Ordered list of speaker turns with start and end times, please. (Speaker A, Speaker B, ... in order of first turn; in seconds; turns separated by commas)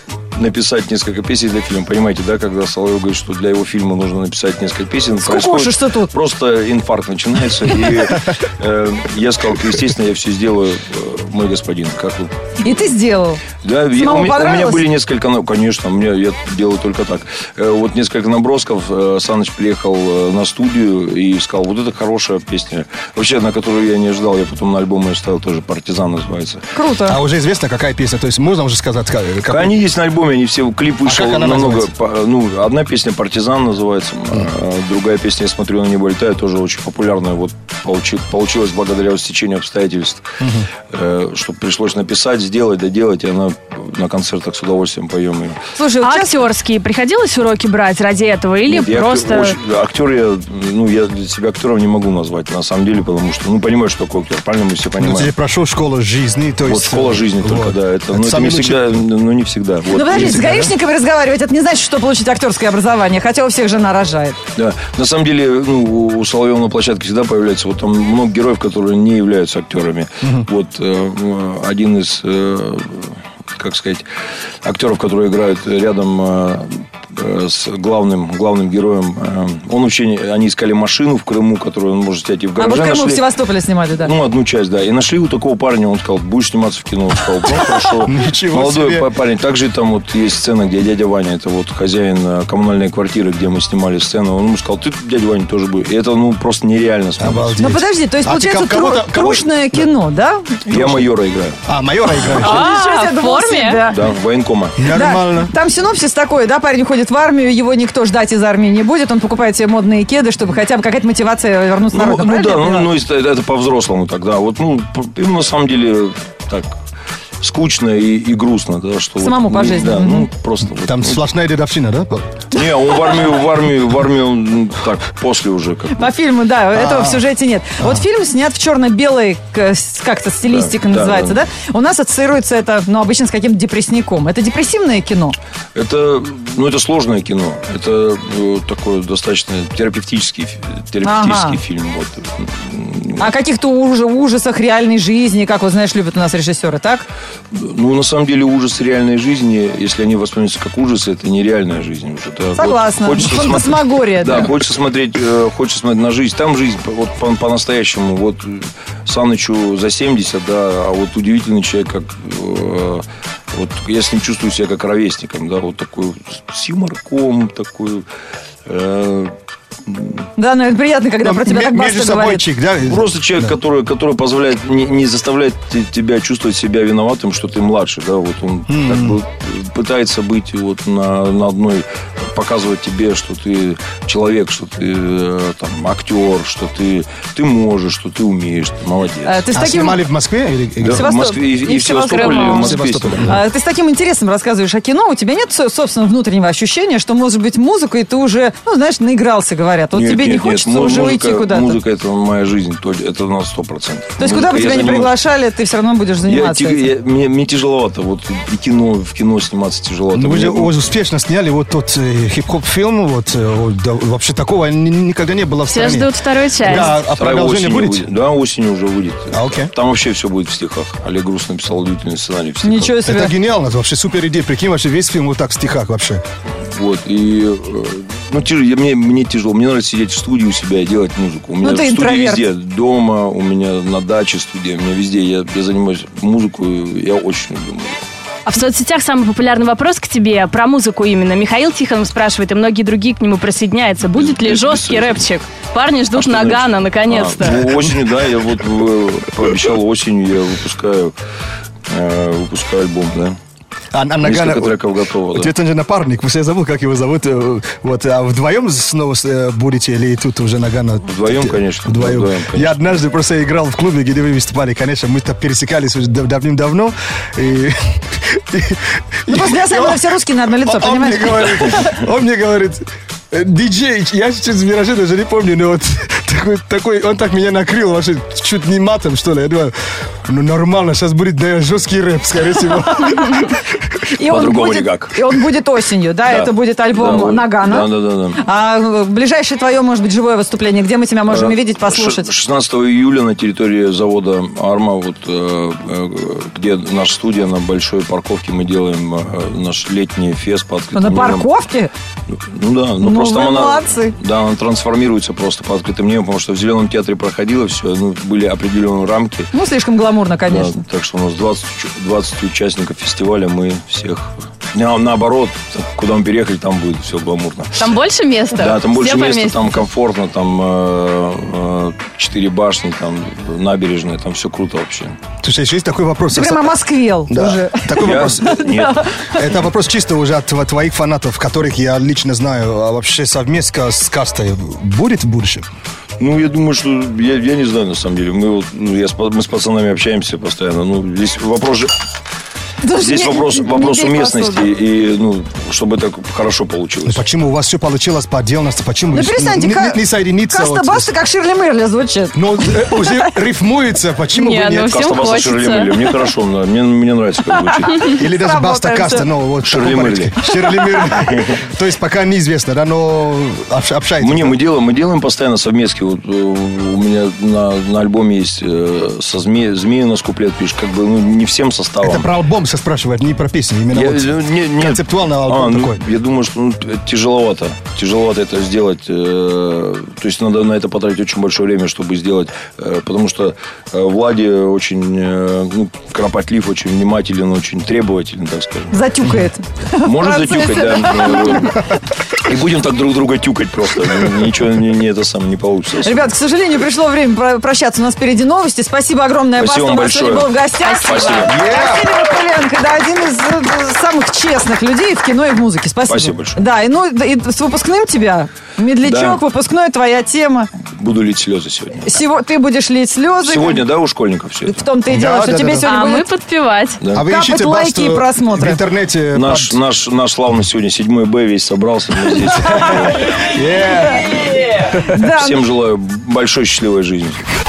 Speaker A: 0.3-12.3, Speaker B: 5.2-6.1, Speaker B: 12.6-13.4, Speaker A: 13.6-26.6, Speaker B: 14.0-14.8, Speaker B: 26.8-27.2, Speaker C: 27.1-29.8, Speaker A: 29.5-40.3, Speaker C: 31.1-31.9, Speaker C: 40.4-40.7, Speaker A: 40.9-45.6, Speaker B: 45.8-46.4, Speaker D: 46.0-49.6, Speaker A: 48.7-55.3, Speaker C: 55.0-58.9, Speaker A: 56.6-60.5, Speaker B: 59.9-64.4, Speaker C: 60.1-60.7, Speaker A: 64.6-74.0, Speaker A: 74.6-83.2, Speaker B: 82.6-84.1, Speaker A: 84.0-97.6, Speaker C: 88.1-89.1, Speaker C: 97.2-99.9, Speaker B: 97.6-100.6, Speaker A: 100.7-101.6, Speaker C: 100.7-101.1, Speaker C: 101.7-102.7, Speaker B: 102.2-104.0, Speaker D: 102.2-103.8, Speaker A: 103.9-104.8, Speaker C: 104.8-105.5, Speaker B: 104.9-112.9, Speaker A: 111.9-116.7, Speaker A: 117.4-121.2, Speaker B: 119.2-120.3, Speaker C: 120.9-122.3, Speaker A: 122.5-126.1, Speaker B: 126.0-135.3, Speaker C: 126.7-127.2, Speaker C: 127.8-128.0, Speaker A: 130.5-131.4, Speaker A: 135.8-143.3, Speaker B: 141.0-141.6, Speaker B: 143.2-147.1, Speaker A: 147.5-168.1, Speaker B: 152.6-154.5, Speaker A: 168.7-169.3, Speaker A: 169.9-170.3, Speaker B: 170.4-172.4, Speaker C: 171.2-173.1, Speaker A: 172.9-189.4, Speaker C: 178.7-179.2, Speaker B: 189.2-190.1, Speaker C: 189.5-191.1, Speaker A: 190.8-193.4, Speaker B: 190.8-201.8, Speaker C: 192.4-193.4, Speaker A: 199.9-205.2, Speaker B: 204.2-206.9, Speaker A: 206.2-210.7, Speaker C: 210.1-218.1, Speaker D: 215.7-216.9, Speaker A: 216.6-223.0, Speaker C: 219.3-219.7, Speaker B: 222.6-223.3, Speaker C: 223.1-226.2, Speaker A: 226.7-238.0, Speaker B: 231.6-232.4, Speaker D: 238.5-247.8, Speaker A: 244.1-245.2, Speaker A: 246.1-251.1, Speaker A: 251.9-253.4, Speaker C: 253.9-254.8, Speaker A: 254.2-255.5, Speaker C: 255.3-270.1, Speaker A: 261.1-262.8, Speaker B: 269.3-272.0, Speaker C: 270.6-279.7, Speaker C: 280.3-283.6, Speaker B: 283.0-283.4, Speaker B: 284.1-292.3, Speaker A: 284.2-285.2, Speaker A: 286.3-288.4, Speaker A: 291.3-301.5, Speaker B: 300.9-301.9, Speaker A: 302.3-309.5, Speaker B: 303.0-304.1, Speaker B: 309.5-310.8, Speaker A: 310.5-317.9, Speaker D: 317.8-319.8, Speaker A: 318.5-325.2, Speaker C: 325.4-326.8, Speaker B: 326.3-329.3, Speaker C: 327.3-328.7, Speaker A: 328.0-329.1, Speaker C: 329.3-335.7, Speaker A: 336.2-341.9, Speaker B: 342.8-344.7, Speaker A: 343.0-347.2, Speaker C: 347.1-351.1, Speaker B: 349.1-352.4, Speaker C: 352.4-355.1, Speaker D: 354.3-356.1, Speaker A: 354.9-358.1, Speaker B: 357.6-359.3, Speaker C: 358.1-364.6, Speaker A: 359.6-361.6, Speaker A: 364.2-372.3, Speaker C: 372.0-376.0, Speaker A: 373.9-389.0, Speaker B: 388.9-391.9, Speaker A: 390.0-396.3, Speaker B: 396.0-410.7, Speaker A: 399.6-401.7, Speaker D: 400.8-401.6, Speaker C: 401.5-402.1, Speaker A: 406.1-406.6, Speaker A: 409.0-409.4, Speaker A: 410.9-412.2, Speaker B: 412.0-413.8, Speaker A: 413.4-414.9, Speaker B: 414.7-416.3, Speaker C: 415.1-415.9, Speaker D: 415.8-417.0, Speaker A: 417.0-417.3, Speaker C: 417.1-419.8, Speaker B: 417.2-418.8, Speaker A: 419.3-423.5, Speaker C: 422.8-425.1, Speaker B: 425.0-425.6, Speaker A: 425.3-427.4